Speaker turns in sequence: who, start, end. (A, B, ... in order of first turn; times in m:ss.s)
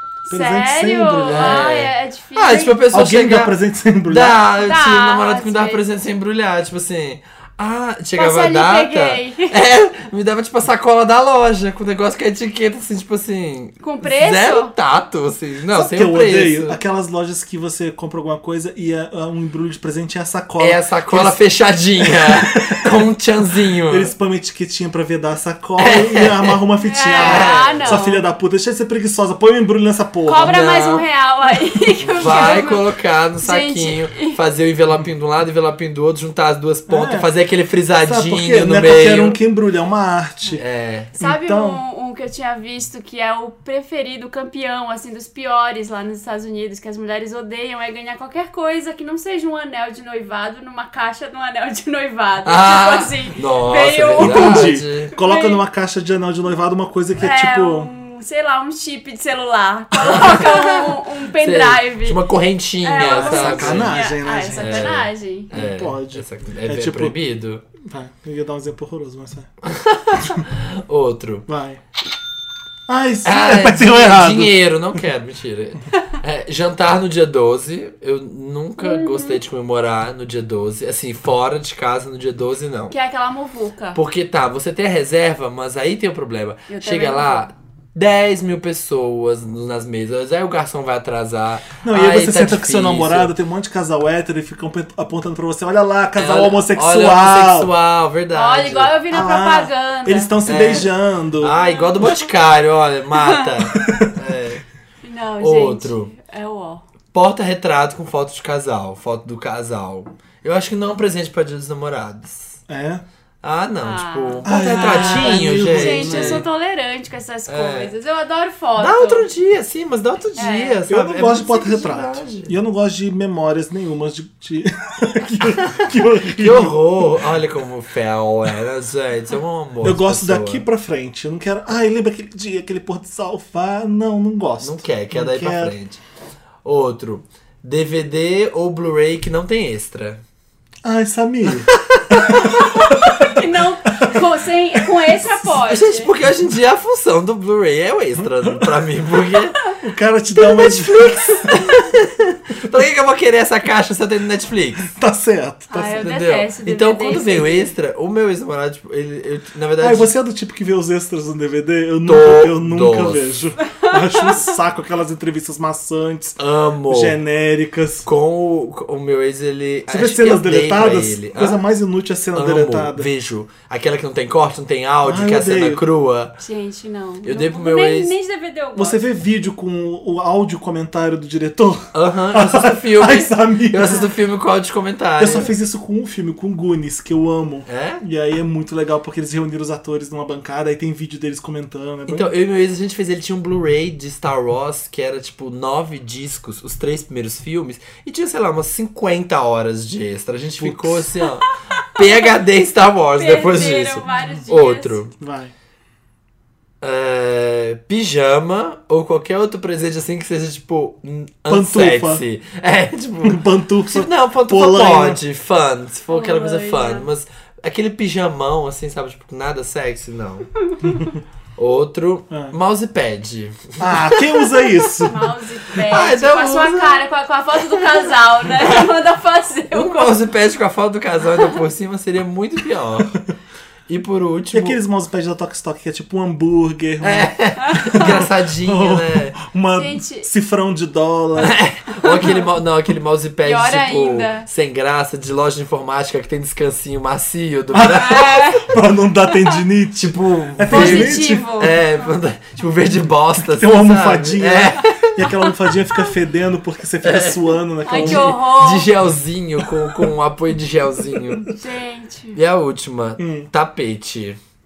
0:00.2-0:02.8 A
0:00.3-0:01.7 B
0:01.2-0:03.6 C
0:02.8-0:04.4 B
0:04.1-0:16.8 C
0:04.6-0:05.8 A
0:08.2-0:09.6 A
0:13.8-0:14.7 A
0:15.7-0:21.4 B
0:20.6-0:24.1 C
0:22.0-0:23.0 B
0:23.9-0:30.6 B
0:25.8-0:26.6 C
0:26.8-0:28.2 A
0:27.2-0:28.0 C
0:30.3-0:32.9 A
0:30.4-0:31.0 C
0:32.0-0:39.4 C
0:33.4-0:34.4 A
0:36.9-0:37.3 B
0:38.0-0:40.6 B
0:40.6-0:41.1 C
0:41.2-0:55.6 A
0:41.2-0:41.8 B
0:52.4-0:55.1 C
0:54.2-0:57.9 B
0:57.2-1:02.2 A
1:00.0-1:04.0 C
1:02.8-1:05.5 A
1:03.0-1:05.0 B
1:04.5-1:07.6 C
1:05.5-1:07.2 B
1:07.8-1:09.5 B
1:09.6-1:11.5 C
1:11.5-1:11.8 B
1:12.9-1:14.6 B
1:13.2-1:22.9 C
1:18.8-1:19.4 A
1:22.9-1:24.0 A
1:24.0-1:33.3 C
1:26.7-1:27.5 A
1:31.8-1:37.7 B
1:36.2-1:39.0 C
1:38.3-1:40.3 A
1:39.1-1:41.6 B
1:40.4-1:44.6 C
1:41.6-1:42.2 A
1:43.8-1:44.1 B
1:45.0-1:46.8 A
1:45.4-1:46.1 C
1:47.1-1:52.6 C
1:52.7-1:53.0 B
1:53.4-1:56.5 C
1:53.8-1:59.3 A
1:54.4-1:56.5 B
1:57.5-1:57.9 C
1:58.8-2:02.5 C
2:00.4-2:00.8 A
2:00.9-2:07.3 B
2:05.6-2:10.6 C
2:09.8-2:15.8 B
2:14.6-2:16.0 C
2:16.6-2:20.2 C
2:20.8-2:21.7 B
2:21.6-2:22.7 C
2:22.4-2:26.1 A
2:25.7-2:29.6 C
2:29.8-2:31.6 B
2:30.4-2:34.9 C
2:34.9-2:36.0 B
2:35.7-2:37.7 A
2:35.9-2:40.1 C
2:39.8-2:48.1 B
2:42.0-2:43.2 C
2:43.7-2:44.4 A
2:46.4-2:47.2 C
2:48.0-2:51.6 C
2:49.9-2:53.1 B
2:52.3-2:56.4 C
2:55.0-2:55.8 B
2:56.4-2:59.0 A
2:57.2-2:58.2 C
2:58.8-3:04.0 B
3:01.9-3:05.5 C
3:05.2-3:12.3 B
3:07.7-3:08.0 C
3:12.1-3:25.1 C
3:20.6-3:21.1 B
3:23.2-3:25.0 A
3:25.2-3:25.5 B
3:26.8-3:40.5 C
3:31.5-3:32.2 B
3:33.2-3:35.2 B
3:36.1-3:37.1 A
3:41.6-3:44.9 C
3:43.8-3:45.3 B
3:45.0-3:50.2 A
3:45.8-3:47.0 C
3:48.6-3:48.9 C
3:49.7-3:53.2 C
3:53.9-3:54.8 C
3:54.5-4:01.6 B
3:57.0-3:59.4 C
3:57.6-3:58.0 A
3:59.7-4:00.3 A
4:01.4-4:08.4 C
4:02.0-4:02.4 A
4:03.4-4:04.5 A
4:07.7-4:11.4 B
4:07.9-4:08.7 A
4:10.0-4:15.3 C
4:10.7-4:12.1 A
4:13.5-4:18.4 B
4:17.0-4:21.5 C
4:17.8-4:18.9 A
4:21.5-4:22.4 A
4:22.4-4:24.4 C
4:23.2-4:23.5 B